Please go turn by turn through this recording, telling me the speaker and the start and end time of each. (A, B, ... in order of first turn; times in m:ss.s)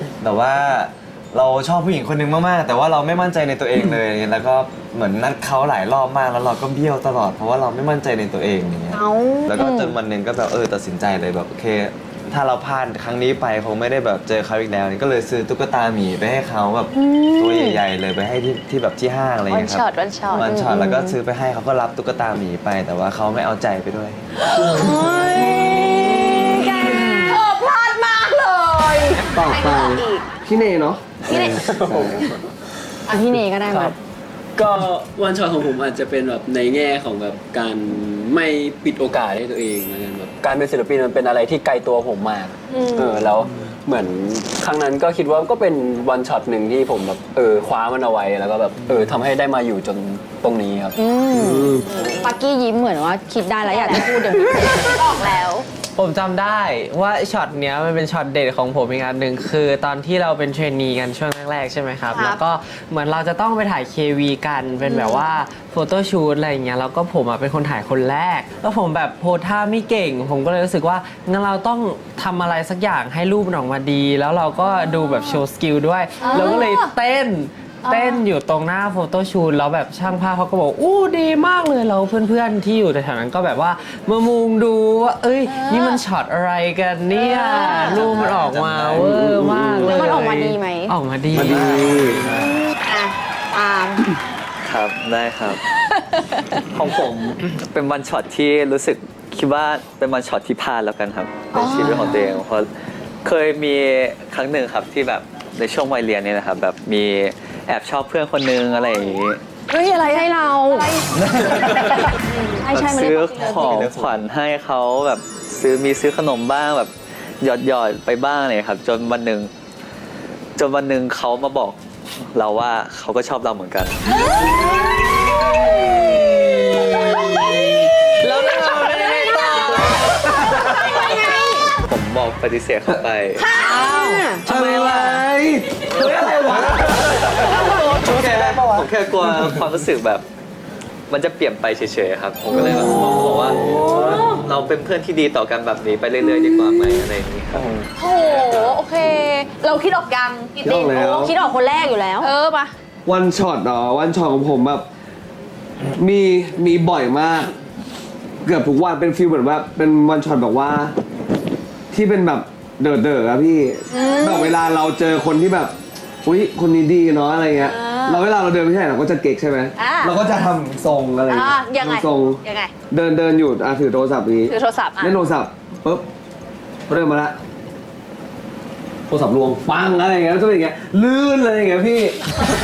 0:00.2-0:24.2 A
0:08.9-0:09.9 B
0:16.9-0:17.8 B
0:19.5-0:20.5 C
0:20.4-0:21.2 B
0:24.6-0:27.4 B
0:24.8-0:26.0 D
0:27.3-0:30.4 C
0:29.3-0:32.3 E
0:31.3-0:31.6 B
0:31.7-0:32.1 D
0:33.1-0:34.0 B
0:33.7-0:33.9 D
0:34.6-0:51.0 D
0:42.7-0:43.3 C
0:51.0-0:55.0 B
0:51.3-0:51.9 E
0:51.9-0:52.2 C
0:53.6-0:55.7 C
0:55.9-1:32.3 F
1:02.1-1:02.4 C
1:04.8-1:05.4 C
1:14.6-1:15.4 C
1:16.2-1:17.0 C
1:17.8-1:18.2 C
1:25.5-1:26.0 C
1:27.1-1:28.2 C
1:27.6-1:27.8 B
1:27.9-1:29.1 G
1:28.9-1:30.0 E
1:29.8-1:31.0 B
1:31.3-1:32.2 E
1:31.4-1:32.6 A
1:32.7-1:34.0 B
1:34.6-1:35.6 G
1:35.9-1:36.4 C
1:36.7-1:42.7 G
1:41.5-1:41.8 B
1:43.2-1:49.4 G
1:49.7-1:51.2 C
1:49.9-1:50.9 B
1:51.2-1:52.1 A
1:51.6-1:52.1 G
1:52.0-1:52.7 C
1:52.6-1:53.8 B
1:52.7-1:59.5 G
1:53.6-1:54.2 A
2:00.6-2:01.8 G
2:02.3-2:04.0 G
2:04.2-2:05.2 F
2:05.8-2:06.9 F
2:07.8-2:10.8 F
2:09.4-2:11.6 B
2:10.1-2:10.6 E
2:11.8-2:13.4 G
2:13.4-2:14.5 B
2:13.6-2:15.3 F
2:14.4-2:17.3 E
2:16.0-2:19.6 A
2:16.3-2:16.5 F
2:16.6-2:20.2 G
2:21.1-2:28.7 G
2:23.7-2:24.4 C
2:27.5-2:27.9 A
2:28.0-2:30.9 C
2:30.6-2:31.3 E
2:30.9-2:32.3 B
2:32.2-2:32.7 C
2:33.0-2:34.8 E
2:35.9-2:37.5 E
2:38.4-2:40.9 E
2:41.9-2:45.7 E
2:43.9-2:44.5 B
2:46.2-2:56.0 E
2:47.6-2:48.2 C
2:49.8-2:50.2 C
2:51.3-2:52.7 C
2:54.5-2:55.2 C
2:56.9-2:57.4 E
2:59.1-3:02.4 E